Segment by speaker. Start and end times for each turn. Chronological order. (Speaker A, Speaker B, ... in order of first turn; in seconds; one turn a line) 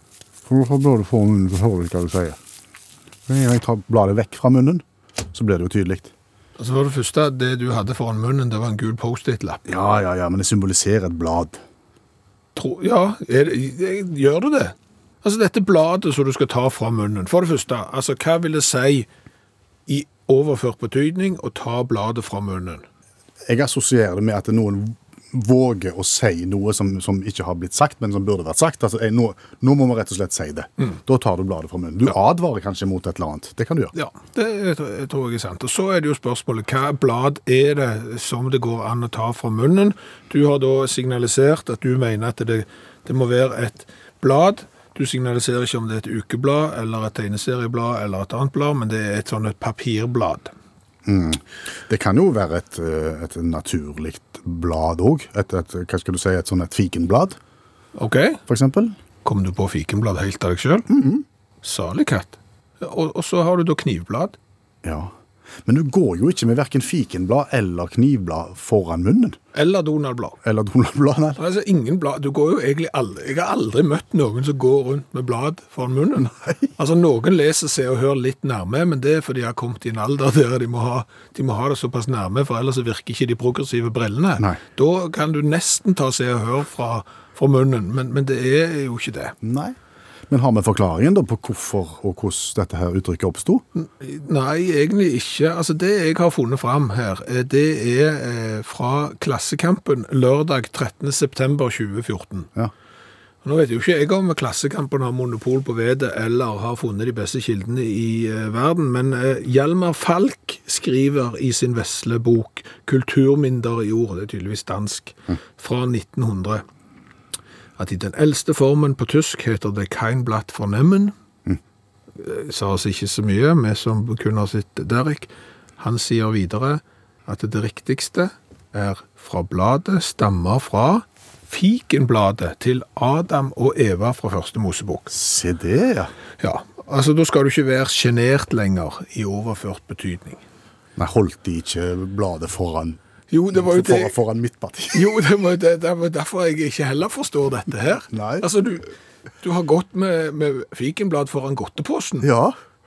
Speaker A: 0.5-2.4
Speaker A: 3.3-6.1
Speaker B: 6.6-9.6
Speaker A: 9.7-11.6
Speaker B: 12.6-19.1
Speaker B: 19.9-22.9
Speaker A: 23.5-33.9
Speaker B: 33.9-50.5
Speaker A: 51.0-57.4
Speaker B: 58.0-58.4
Speaker A: 58.5-59.0
Speaker B: 59.2-60.9
Speaker A: 60.9-61.2
Speaker B: 61.6-64.4
Speaker A: 64.8-65.1
Speaker A: 65.7-69.4
Speaker B: 69.5-70.4
Speaker A: 70.4-71.4
Speaker B: 71.4-89.3
Speaker A: 89.4-89.8
Speaker A: 90.3-93.6
Speaker B: 93.8-102.5
Speaker B: 103.4-116.6
Speaker B: 117.8-121.1
Speaker B: 122.2-135.1
Speaker A: 135.1-136.1
Speaker B: 136.4-140.4
Speaker A: 141.0-143.0
Speaker B: 143.3-144.2
Speaker A: 143.5-145.2
Speaker B: 144.9-148.9
Speaker A: 148.1-148.5
Speaker B: 149.4-152.3
Speaker A: 152.2-152.6